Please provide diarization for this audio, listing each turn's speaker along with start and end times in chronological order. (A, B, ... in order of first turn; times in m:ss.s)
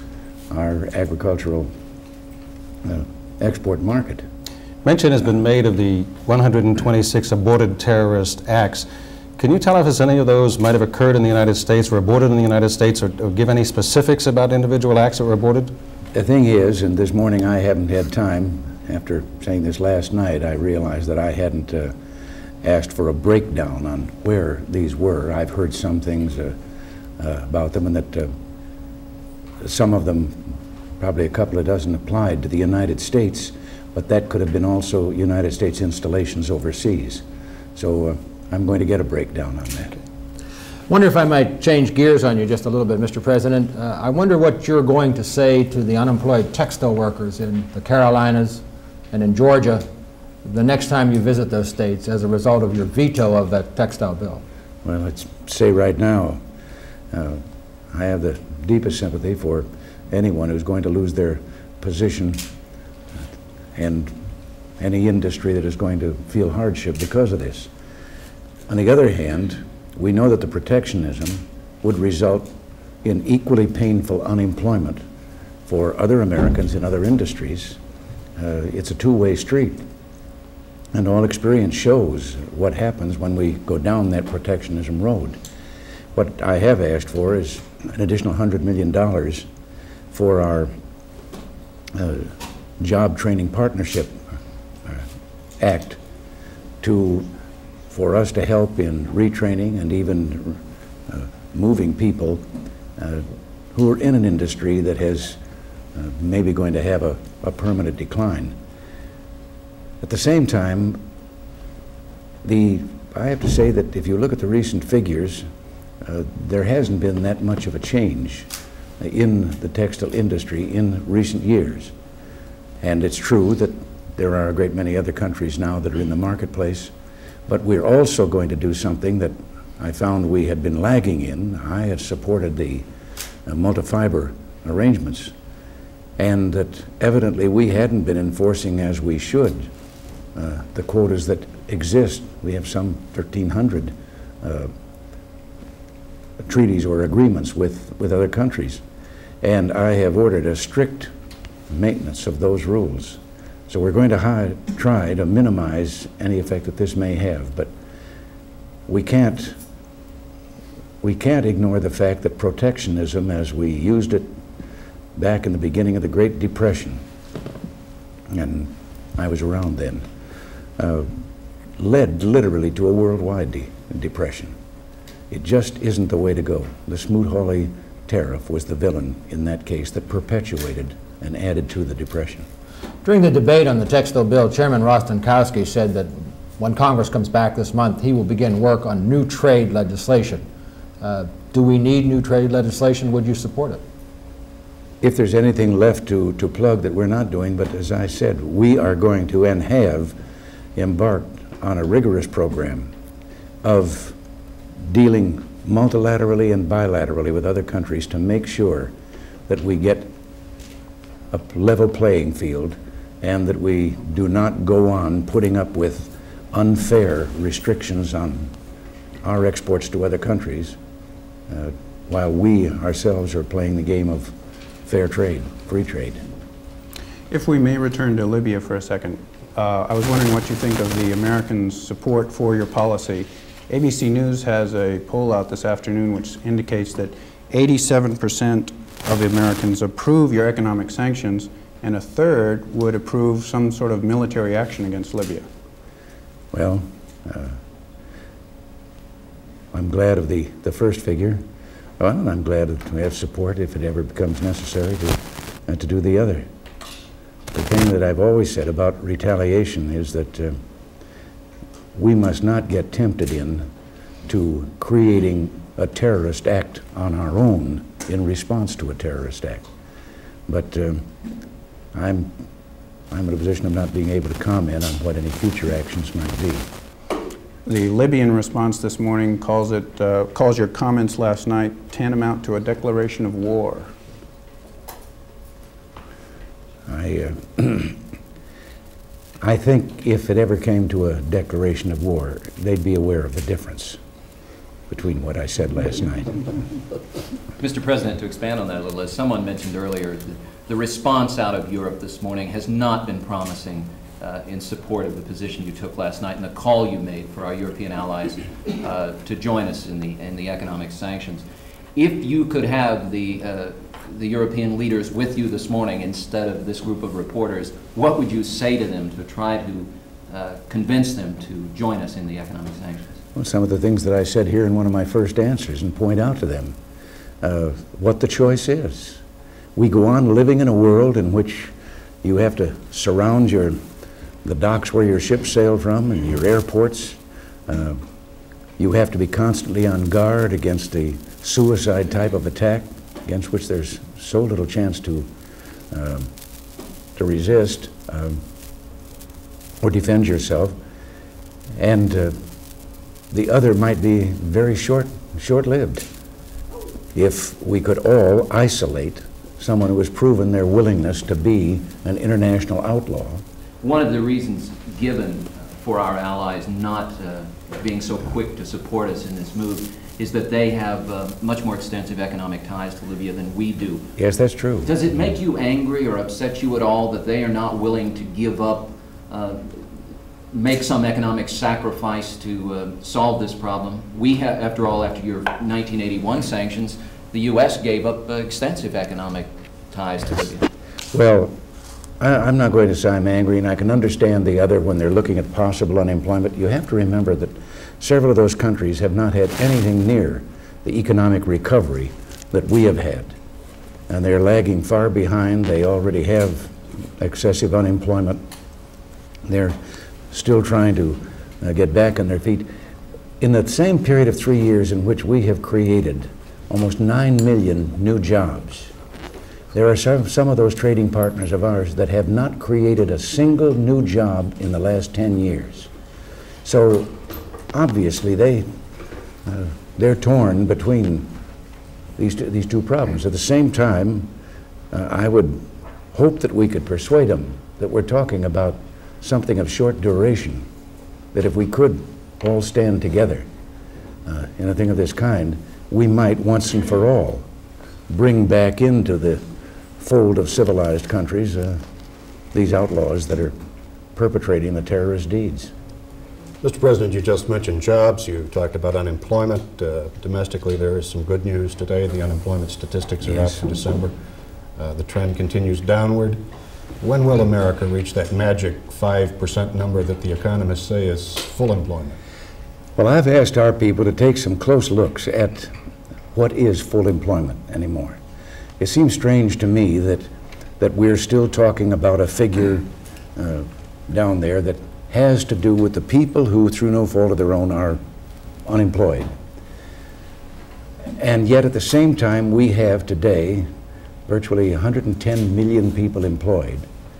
0:00.5-0:01.7 A
0:02.8-0:04.2 A
0:04.8-0:15.7 B
0:16.1-0:21.9 A
0:22.6-0:26.6 A
0:27.2-0:28.3 A
0:29.6-0:37.2 A
0:37.7-0:40.0 A
0:40.9-0:49.8 C
0:50.4-0:54.4 C
0:54.8-0:56.4 A
0:57.1-1:02.4 A
1:03.7-1:04.2 A
1:04.8-1:07.7 A
1:08.7-1:12.5 A
1:13.0-1:15.0 A
1:15.6-1:17.8 A
1:18.4-1:19.8 A
1:20.9-1:25.4 A
1:26.1-1:29.5 A
1:30.1-1:30.7 A
1:31.9-1:34.2 A
1:35.6-1:36.0 A
1:36.8-1:37.3 A
1:37.9-1:42.4 A
1:43.0-1:45.4 A
1:45.9-1:48.6 A
1:50.0-1:51.0 A
1:52.4-1:55.4 A
1:56.0-2:01.9 A
2:02.8-2:06.9 A
2:07.5-2:12.8 A
2:13.4-2:15.3 A
2:16.2-2:19.7 A
2:20.3-2:24.7 A
2:26.4-2:28.8 A
2:29.4-2:31.1 A
2:31.7-2:37.7 A
2:38.9-2:39.6 A
2:41.0-2:44.3 A
2:45.1-2:47.0 A
2:48.3-2:50.0 A
2:50.8-2:51.2 A
2:51.8-2:54.5 A
2:55.3-3:02.5 A
3:03.0-3:10.4 C
3:11.0-3:13.8 C
3:15.0-3:20.1 A
3:20.8-3:22.9 A
3:23.6-3:24.2 A
3:24.8-3:28.9 A
3:29.5-3:30.1 A
3:31.3-3:38.5 A
3:39.2-3:40.8 A
3:41.5-3:46.2 A
3:47.3-4:05.5 D
4:06.5-4:07.6 A
4:09.7-4:11.4 A
4:12.0-4:16.5 A
4:17.5-4:20.6 A
4:21.9-4:23.7 A
4:24.2-4:29.6 A
4:30.5-4:31.0 A
4:31.9-4:32.3 A
4:33.1-4:36.7 A
4:37.6-4:43.9 D
4:46.9-4:48.0 A
4:49.4-4:54.0 A
4:54.9-4:56.5 A
4:57.6-5:23.2 E
5:23.3-5:26.8 A
5:27.4-5:29.2 A
5:29.7-5:33.8 A
5:34.4-5:38.0 A
5:38.8-5:45.3 A
5:45.9-5:46.3 A
5:47.1-5:48.4 A
5:49.8-5:50.8 A
5:51.8-5:52.4 A
5:53.3-5:56.0 A
5:57.1-6:03.4 A
6:03.8-6:14.1 E
6:14.2-6:14.9 A
6:14.8-6:19.9 E
6:20.5-6:30.7 E
6:31.1-6:31.6 A
6:32.2-6:43.3 A
6:44.1-6:48.4 A
6:49.4-6:49.8 A
6:50.3-6:52.7 A
6:53.4-6:58.9 A
6:59.7-7:05.9 A
7:06.6-7:07.2 A
7:07.7-7:08.7 A
7:09.4-7:11.3 A
7:12.2-7:14.3 A
7:14.9-7:20.6 A
7:21.3-7:23.4 A
7:24.2-7:27.4 A
7:28.1-7:29.4 A
7:30.0-7:31.8 A
7:32.5-7:33.5 A
7:34.1-7:35.7 A
7:36.6-7:44.1 F
7:43.2-7:43.7 A
7:44.8-7:46.4 F
7:47.0-7:52.2 F
7:53.0-7:55.7 A
7:56.3-7:58.2 A
7:58.8-8:00.3 A
8:00.8-8:08.0 A
8:08.6-8:09.3 A
8:11.2-8:13.7 A
8:14.2-8:16.9 A